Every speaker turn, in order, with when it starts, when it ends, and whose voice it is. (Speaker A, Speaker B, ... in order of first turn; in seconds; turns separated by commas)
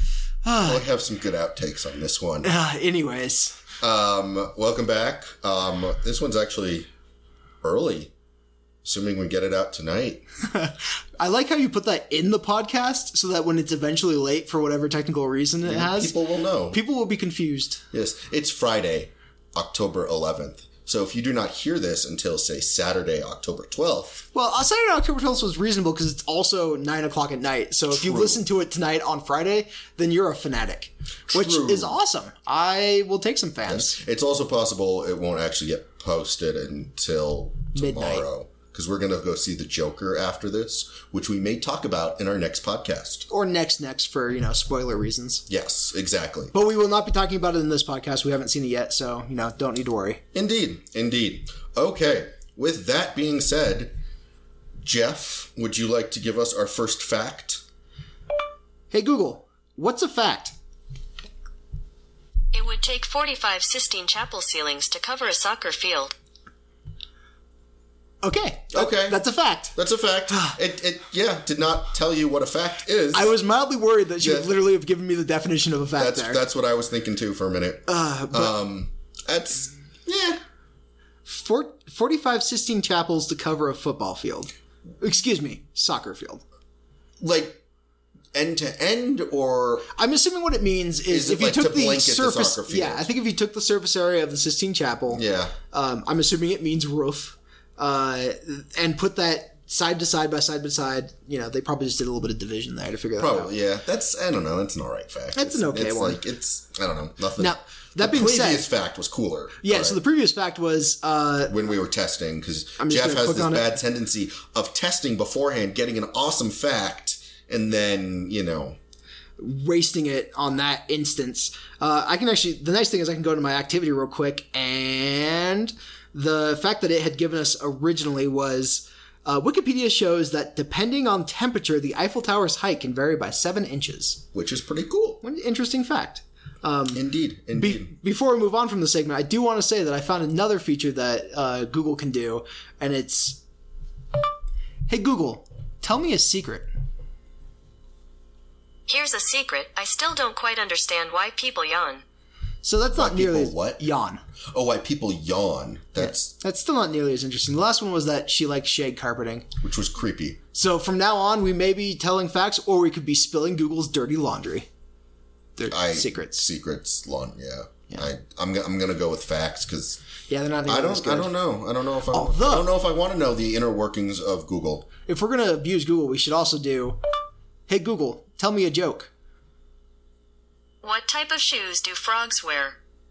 Speaker A: 0.4-0.8, Speaker B: 0.6-2.5, Speaker A: 2.4-3.6, Speaker B: 3.8-6.9, Speaker B: 7.6-8.1, Speaker B: 8.8-10.2, Speaker A: 10.4-16.2, Speaker B: 15.6-16.8, Speaker A: 16.7-17.8, Speaker B: 17.9-24.2, Speaker A: 24.3-34.0, Speaker B: 27.9-28.4, Speaker B: 31.3-32.0, Speaker B: 33.6-43.3, Speaker A: 37.7-38.2, Speaker A: 43.3-45.4, Speaker B: 45.5-46.5, Speaker A: 46.5-50.2, Speaker B: 50.3-53.9, Speaker B: 54.8-57.6, Speaker A: 58.9-60.5, Speaker C: 62.5-66.1, Speaker A: 68.2-69.7, Speaker B: 68.7-69.2, Speaker B: 69.7-73.3, Speaker A: 70.3-70.6, Speaker A: 73.1-76.4, Speaker B: 74.2-74.5, Speaker B: 76.0-80.4, Speaker A: 77.9-78.5, Speaker A: 81.2-86.4, Speaker B: 87.2-87.6, Speaker B: 88.3-89.9, Speaker A: 89.9-103.5, Speaker B: 91.1-93.0, Speaker B: 95.1-95.5, Speaker B: 103.2-110.0, Speaker A: 105.3-106.2, Speaker A: 107.4-108.7, Speaker A: 109.6-111.5, Speaker B: 111.5-118.8, Speaker A: 112.8-113.7, Speaker A: 119.4-134.2, Speaker B: 134.3-135.2, Speaker A: 135.2-137.0, Speaker B: 136.9-137.9, Speaker A: 137.5-143.4, Speaker A: 144.9-146.7, Speaker C: 148.9-152.0, Speaker A: 152.6-154.2, Speaker B: 152.9-153.8, Speaker B: 154.5-156.3, Speaker A: 156.0-159.5, Speaker B: 159.6-160.4, Speaker A: 160.5-164.7, Speaker A: 165.6-166.4, Speaker B: 165.7-170.0, Speaker A: 170.3-171.3, Speaker B: 170.7-174.9, Speaker A: 172.1-172.7, Speaker A: 175.1-177.0, Speaker A: 177.7-179.1, Speaker C: 180.8-182.8